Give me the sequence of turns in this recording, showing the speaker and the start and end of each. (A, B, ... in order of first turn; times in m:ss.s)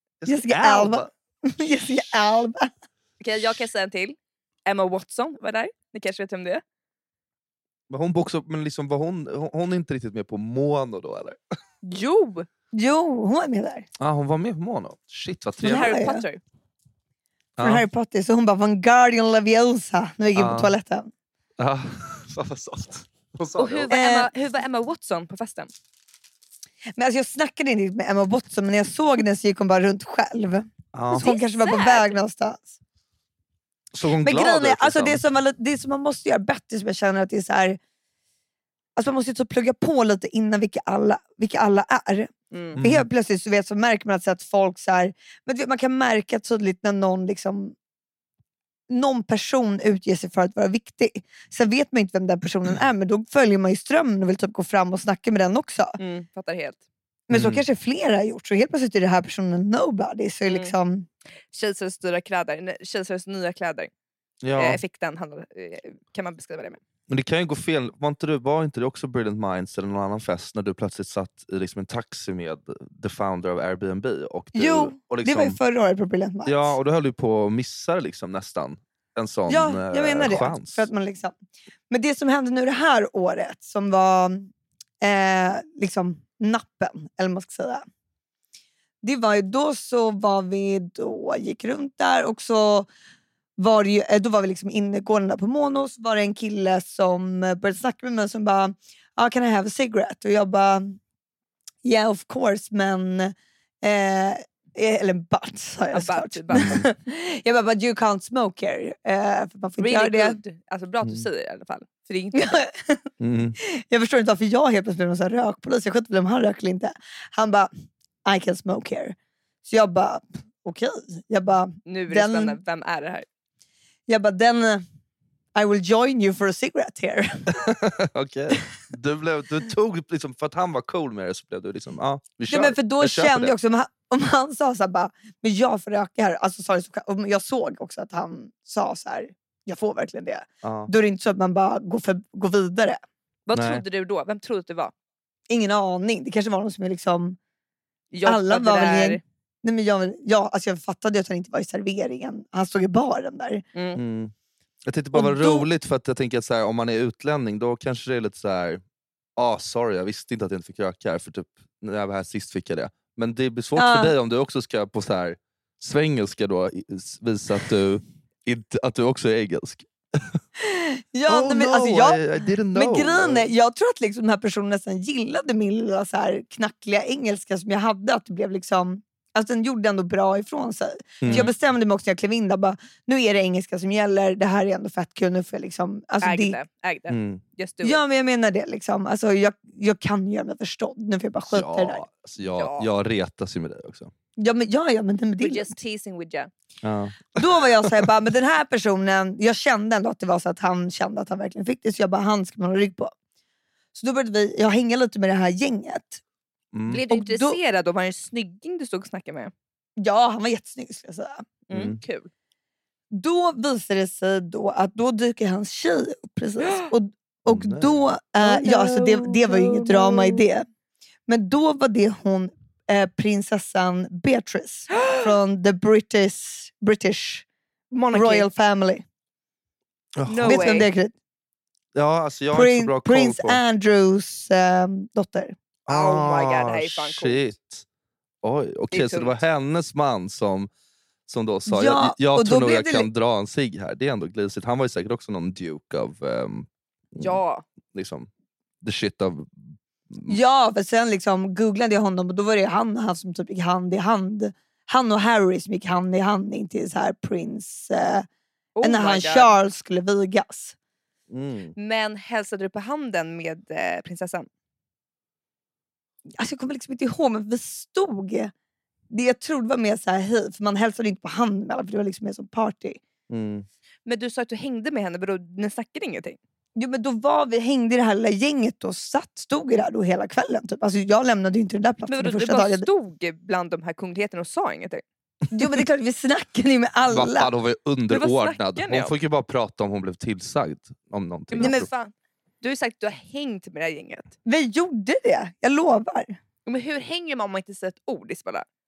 0:00.2-0:01.1 A
0:00.3-0:02.7 B
0:03.2-0:06.6 C
0:07.9-0:11.4 A
0:11.8-0:12.5 C
0:12.7-0:13.8 B
0:14.0-0:16.0 A
0:15.6-0:16.4 C
0:15.6-0:16.2 B
0:17.6-0:17.8 A
0:17.6-0:21.1 B
0:20.3-0:20.7 A
0:21.6-0:23.9 A
0:23.6-0:25.7 C
0:23.9-0:24.3 B
0:27.0-0:32.8 B
0:30.9-0:31.2 A
0:31.1-0:32.2 C
0:33.9-0:35.2 A
0:34.2-0:37.8 B
0:39.0-0:47.7 B
0:42.5-0:42.8 C
0:42.8-0:43.1 A
0:48.9-0:56.0 B
0:56.0-0:56.8 C
0:57.3-1:01.0 B
0:57.3-0:57.6 A
1:00.5-1:00.7 C
1:01.5-1:03.9 C
1:04.4-1:04.8 A
1:04.5-1:06.8 C
1:07.1-1:15.6 A
1:14.5-1:16.8 B
1:16.4-1:20.9 A
1:19.5-1:21.3 B
1:21.9-1:27.8 B
1:29.0-1:32.9 B
1:33.6-1:41.0 B
1:41.8-1:50.4 B
1:45.9-1:46.7 C
1:46.5-1:46.9 A
1:49.8-1:52.5 C
1:52.3-1:53.0 B
1:53.2-1:53.6 A
1:53.6-1:57.7 B
1:58.2-2:02.6 B
2:01.8-2:03.2 C
2:04.1-2:04.8 B
2:05.5-2:07.5 B
2:07.6-2:13.5 A
2:12.5-2:23.0 B
2:20.6-2:20.9 A
2:23.5-2:24.9 C
2:23.5-2:23.8 A
2:25.5-2:27.4 B
2:28.1-2:29.2 C
2:28.2-2:33.6 B
2:33.7-2:34.0 C
2:34.0-2:34.3 A
2:34.8-2:38.8 A
2:35.1-2:35.6 B
2:39.4-2:50.4 A
2:43.8-2:44.1 B
2:50.6-3:06.6 B
2:51.3-2:53.5 A
3:01.2-3:01.5 A
3:01.3-3:01.5 C
3:06.2-3:08.0 C
3:07.1-3:07.4 A
3:07.8-3:12.0 B
3:11.5-3:14.1 A
3:12.4-3:12.9 C
3:14.4-3:15.7 B
3:15.4-3:16.5 C
3:16.8-3:18.1 A
3:17.3-3:23.1 B
3:23.9-3:26.2 B
3:26.7-3:27.0 A
3:26.9-3:29.5 C
3:27.0-3:27.6 B
3:30.0-3:31.4 B
3:31.7-3:32.3 C
3:31.7-3:32.0 A
3:33.1-3:40.6 B
3:37.4-3:38.0 A
3:38.4-3:40.4 C
3:41.3-3:47.4 B
3:44.9-3:45.2 C
3:47.9-3:48.5 C
3:48.1-3:49.0 B
3:50.2-3:50.9 A
3:50.3-3:50.9 C
3:50.4-3:51.1 B
3:51.9-3:53.6 A
3:52.5-3:55.6 B
3:55.8-3:57.8 A
3:55.9-3:57.5 C
3:58.4-4:00.7 A
3:58.9-3:59.4 C
4:01.3-4:07.4 A
4:01.7-4:03.1 B
4:07.2-4:07.6 C
4:07.9-4:08.3 A
4:08.8-4:10.4 A
4:10.3-4:18.3 B
4:18.8-4:19.5 C
4:18.8-4:20.8 B
4:21.3-4:21.7 A
4:21.8-4:24.5 C
4:26.4-4:28.5 B
4:29.1-4:33.0 B
4:33.3-4:33.6 A
4:34.0-4:36.4 C
4:36.8-4:42.9 B
4:42.1-4:45.0 C
4:45.5-4:47.5 B
4:47.1-4:51.9 A
4:48.1-4:49.1 C
4:51.5-4:54.3 C
4:51.6-4:51.8 B
4:54.4-4:56.4 B
4:56.6-4:58.6 C